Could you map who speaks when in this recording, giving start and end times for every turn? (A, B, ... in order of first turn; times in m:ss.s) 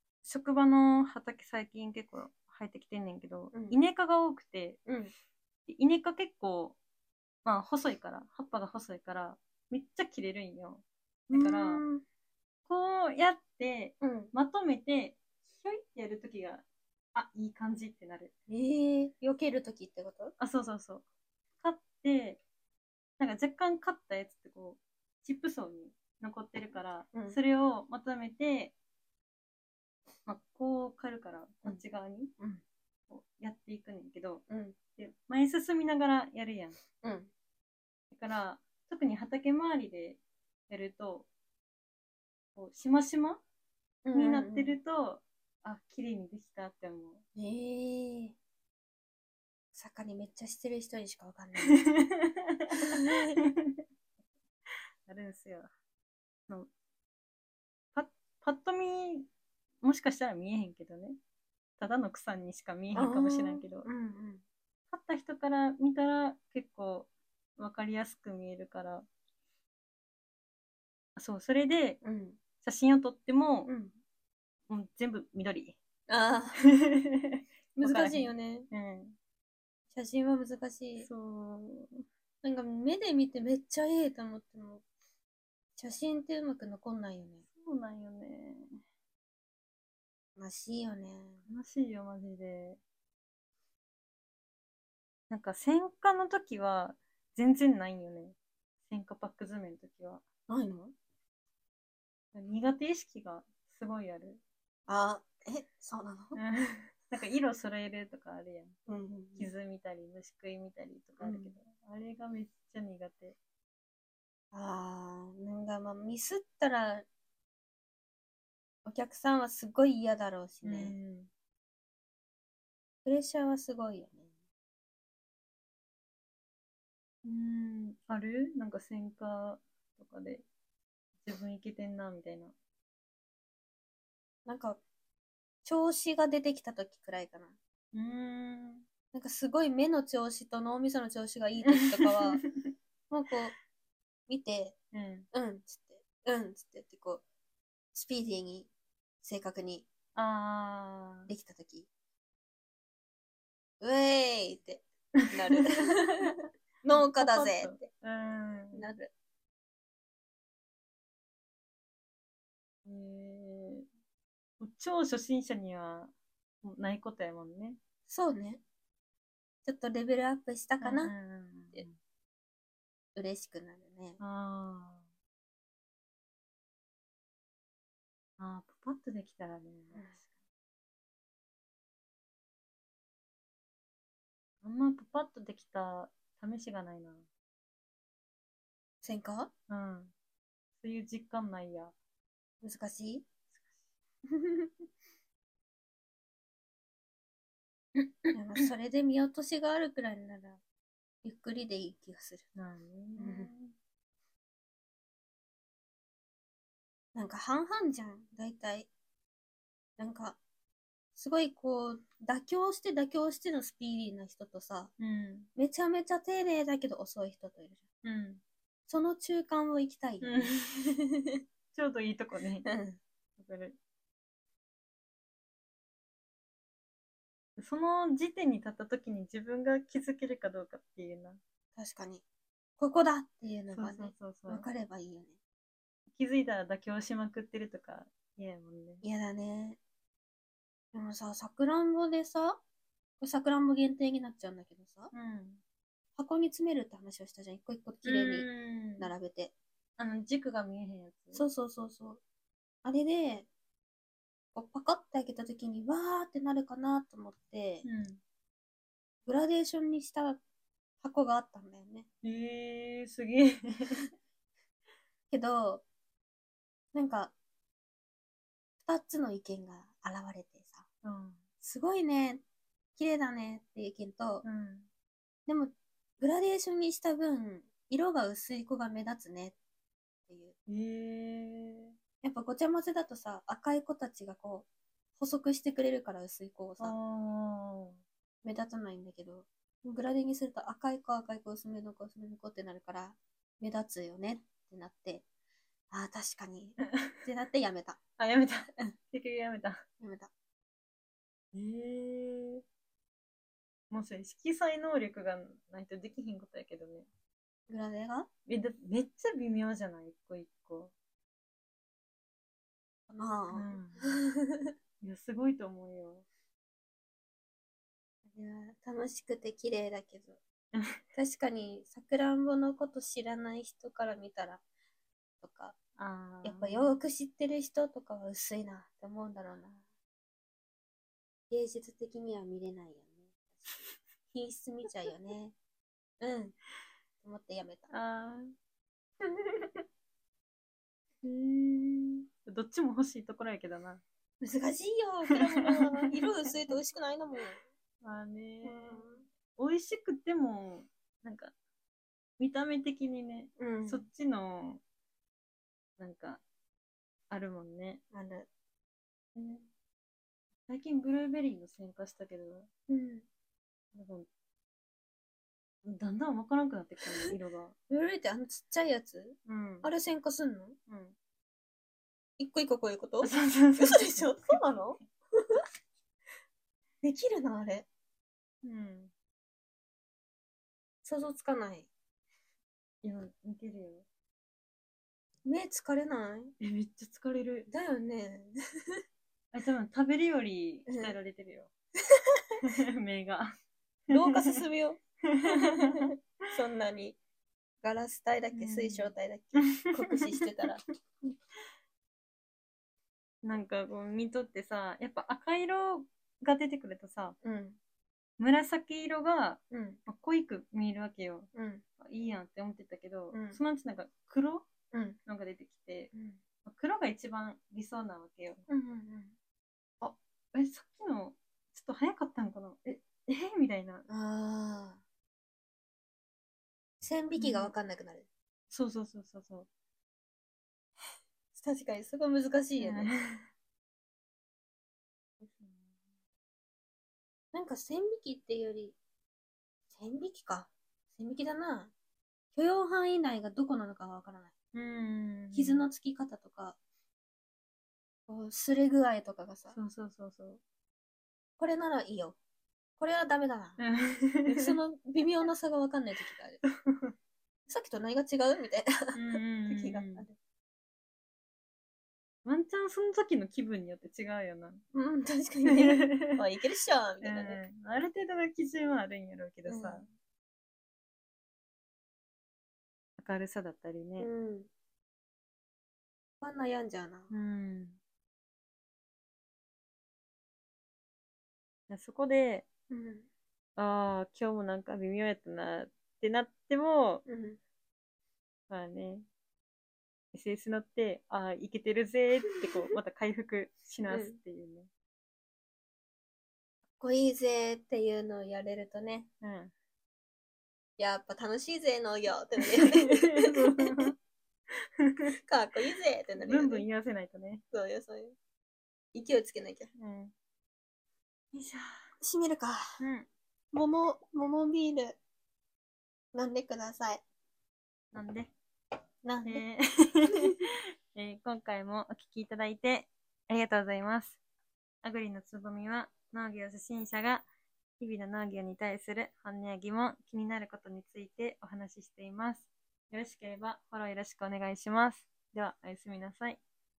0:00.2-0:04.8 A
0:03.5-0:03.8 B
0:04.8-0:05.1 B
0:05.7-0:06.8 A
0:07.4-0:11.8 A
0:11.3-0:12.0 B
0:12.6-0:18.3 A
0:14.0-0:14.3 B
0:18.5-0:20.3 B
0:20.4-0:21.0 A
0:21.6-0:22.4 A
0:23.2-0:28.7 A
0:27.1-0:27.4 B
0:30.2-0:32.3 A
0:33.1-0:34.4 A
0:34.5-0:34.8 B
0:35.0-0:36.8 A
0:37.0-0:37.3 B
0:38.1-0:41.3 A
0:42.6-0:43.4 A
0:44.0-0:44.8 B
0:44.1-0:47.2 A
0:47.4-0:48.4 B
0:49.7-0:51.8 B
0:51.7-0:53.8 A
0:52.7-0:53.4 B
0:55.0-0:55.7 A
0:57.9-0:59.3 A
0:59.8-1:01.2 A
1:01.8-1:03.9 A
1:02.9-1:04.4 B
1:04.9-1:09.0 A
1:11.2-1:12.0 A
1:12.0-1:12.4 B
1:12.6-1:13.7 A
1:13.6-1:14.0 B
1:14.7-1:15.8 A
1:16.1-1:16.6 B
1:16.7-1:19.1 A
1:17.8-1:18.7 B
1:19.9-1:21.1 B
1:21.0-1:22.0 A
1:22.4-1:24.8 B
1:25.8-1:27.4 B
1:27.6-1:28.7 A
1:30.4-1:31.4 B
1:31.5-1:32.8 A
1:35.3-1:38.4 A
1:38.9-1:40.2 A
1:40.5-1:40.9 B
1:42.3-1:44.4 A
1:44.9-1:46.4 B
1:46.3-1:48.8 A
1:48.9-1:49.5 B
1:49.4-1:53.4 A
1:51.2-1:51.6 B
1:54.5-1:57.0 B
1:58.8-2:01.0 B
2:00.6-2:01.3 A
2:03.0-2:04.3 B
2:07.2-2:10.4 A
2:11.2-2:12.5 A
2:14.4-2:14.8 B
2:15.6-2:17.6 B
2:17.9-2:18.8 A
2:19.1-2:22.4 B
2:21.7-2:22.7 A
2:23.1-2:23.5 B
2:24.3-2:24.8 B
2:24.9-2:25.3 A
2:25.3-2:27.2 B
2:27.9-2:28.7 B
2:29.2-2:29.9 B
2:30.1-2:31.3 A
2:31.3-2:31.9 B
2:33.8-2:37.8 B
2:36.9-2:38.8 A
2:38.7-2:39.1 B
2:42.8-2:43.8 A
2:44.6-2:47.8 A
2:48.1-2:48.6 B
2:49.6-2:51.1 B
2:50.8-2:51.9 A
2:53.1-2:54.2 B
2:54.2-2:55.0 A
2:58.4-3:00.1 A
2:59.9-3:00.2 B
3:04.6-3:07.2 A
3:09.0-3:09.5 B
3:09.7-3:10.1 A
3:10.8-3:11.9 A
3:12.6-3:13.2 B
3:14.4-3:14.7 B
3:17.9-3:18.3 A
3:18.3-3:20.6 B
3:21.2-3:22.4 B
3:22.6-3:23.7 A
3:23.2-3:23.5 B
3:27.1-3:28.9 B
3:30.0-3:30.4 B
3:31.1-3:34.9 B
3:35.0-3:35.5 A
3:35.6-3:37.8 B
3:38.0-3:38.4 A
3:38.9-3:41.3 B
3:40.2-3:40.6 A
3:41.7-3:42.7 A
3:42.6-3:43.0 B
3:43.4-3:43.8 A
3:47.6-3:51.4 A
3:51.8-3:52.2 B
3:52.8-3:55.3 B
3:53.7-3:54.7 A
3:56.1-3:59.0 A
3:59.0-3:59.8 B
4:00.9-4:02.6 B
4:03.2-4:05.1 B
4:05.1-4:05.6 A
4:06.2-4:08.5 B
4:08.0-4:09.1 A
4:09.0-4:09.5 B
4:10.0-4:11.4 A
4:11.3-4:12.2 B
4:12.8-4:13.5 B
4:14.5-4:17.8 B
4:17.8-4:18.2 A
4:19.2-4:20.4 B
4:21.0-4:22.0 B
4:22.2-4:24.0 A
4:25.3-4:25.8 B
4:26.9-4:27.3 B
4:28.8-4:30.8 B
4:31.0-4:31.4 A
4:31.6-4:32.4 B
4:33.0-4:34.4 B
4:34.4-4:34.9 A
4:35.5-4:39.6 B
4:40.3-4:40.6 B
4:40.7-4:41.9 A
4:42.2-4:46.9 B
4:46.8-4:48.0 A
4:48.4-4:55.2 B
4:55.9-4:58.0 B
4:58.2-4:59.8 A
5:00.0-5:00.3 B
5:01.5-5:02.6 A
5:03.9-5:07.1 A
5:07.7-5:08.3 B
5:08.5-5:10.9 A
5:13.1-5:14.7 B
5:13.5-5:14.2 A
5:15.0-5:16.2 A
5:18.3-5:20.4 B
5:20.7-5:21.0 A
5:21.1-5:24.6 B
5:25.4-5:25.8 B
5:26.0-5:27.0 A
5:26.4-5:29.8 B
5:31.5-5:33.7 B
5:34.3-5:35.5 B
5:36.2-5:36.6 B
5:37.2-5:37.9 B
5:37.9-5:38.5 A
5:39.2-5:39.8 B
5:41.2-5:44.0 A
5:44.4-5:47.6 B
5:45.6-5:46.2 A
5:48.0-5:51.5 A
5:48.6-5:49.2 B
5:52.4-5:54.8 A
5:53.6-5:54.1 B
5:56.0-5:56.4 A
5:57.3-5:58.0 A
5:58.1-5:58.5 B
5:59.3-5:59.7 A
6:00.7-6:02.7 A
6:02.9-6:03.2 B
6:03.9-6:04.3 A
6:05.8-6:07.7 A
6:07.9-6:10.8 B
6:09.4-6:09.9 A
6:10.9-6:11.1 A
6:12.4-6:15.6 B
6:13.2-6:14.6 A
6:17.0-6:17.9 B
6:18.6-6:19.1 A
6:21.0-6:21.9 B
6:23.0-6:24.0 A
6:25.4-6:26.5 B
6:26.6-6:27.7 A
6:27.7-6:28.5 B
6:29.5-6:31.7 A
6:30.9-6:31.1 B
6:32.6-6:33.5 A
6:34.1-6:34.6 A
6:34.1-6:37.2 B
6:35.2-6:36.1 A
6:37.8-6:40.8 B
6:38.5-6:40.7 A
6:43.4-6:47.4 A
6:47.4-6:47.8 B
6:48.4-6:54.6 A
6:49.7-6:50.0 B
6:51.5-6:51.8 B
6:53.3-6:53.6 B
6:54.9-6:55.2 B
6:55.2-6:56.1 A
6:56.1-6:56.4 B
6:56.6-6:58.6 A
6:58.7-6:59.3 B
7:00.0-7:04.0 A
7:04.1-7:05.0 B
7:07.0-7:08.2 B
7:07.4-7:07.7 A
7:08.7-7:09.7 A
7:11.5-7:13.1 B
7:12.8-7:13.5 A
7:15.4-7:15.9 A
7:17.5-7:19.0 B
7:19.9-7:21.9 B
7:22.5-7:24.5 B
7:24.7-7:25.8 A
7:25.5-7:26.8 B
7:28.3-7:29.8 B
7:29.7-7:30.6 A
7:31.6-7:32.4 B
7:33.0-7:33.8 B
7:33.8-7:34.8 A
7:34.5-7:36.6 B
7:36.6-7:37.1 A
7:37.7-7:40.4 B
7:39.1-7:40.2 A
7:42.4-7:44.8 A
7:44.9-7:47.6 B
7:45.7-7:46.4 A
7:47.2-7:50.1 A
7:49.6-7:50.1 B
7:53.2-7:54.3 A
7:54.2-7:54.7 B
7:56.4-7:57.3 B
7:57.3-7:58.0 A
8:01.9-8:02.7 A
8:02.9-8:03.3 B
8:03.8-8:07.2 A
8:07.2-8:07.6 B
8:08.7-8:09.2 A
8:10.3-8:14.9 A
8:14.1-8:14.4 B
8:17.0-8:19.3 B
8:19.4-8:19.7 A
8:21.0-8:24.1 B
8:22.7-8:24.1 A
8:24.7-8:25.4 A
8:25.4-8:26.8 B
8:26.4-8:27.6 A
8:27.7-8:28.4 B
8:29.1-8:29.9 B
8:30.0-8:30.3 A
8:31.5-8:32.0 A
8:32.2-8:32.8 B
8:33.0-8:33.3 A
8:33.7-8:35.2 B
8:36.3-8:37.2 B
8:38.1-8:38.5 A
8:39.2-8:39.6 B
8:39.4-8:44.4 A
8:45.0-8:47.4 A
8:48.0-8:56.6 A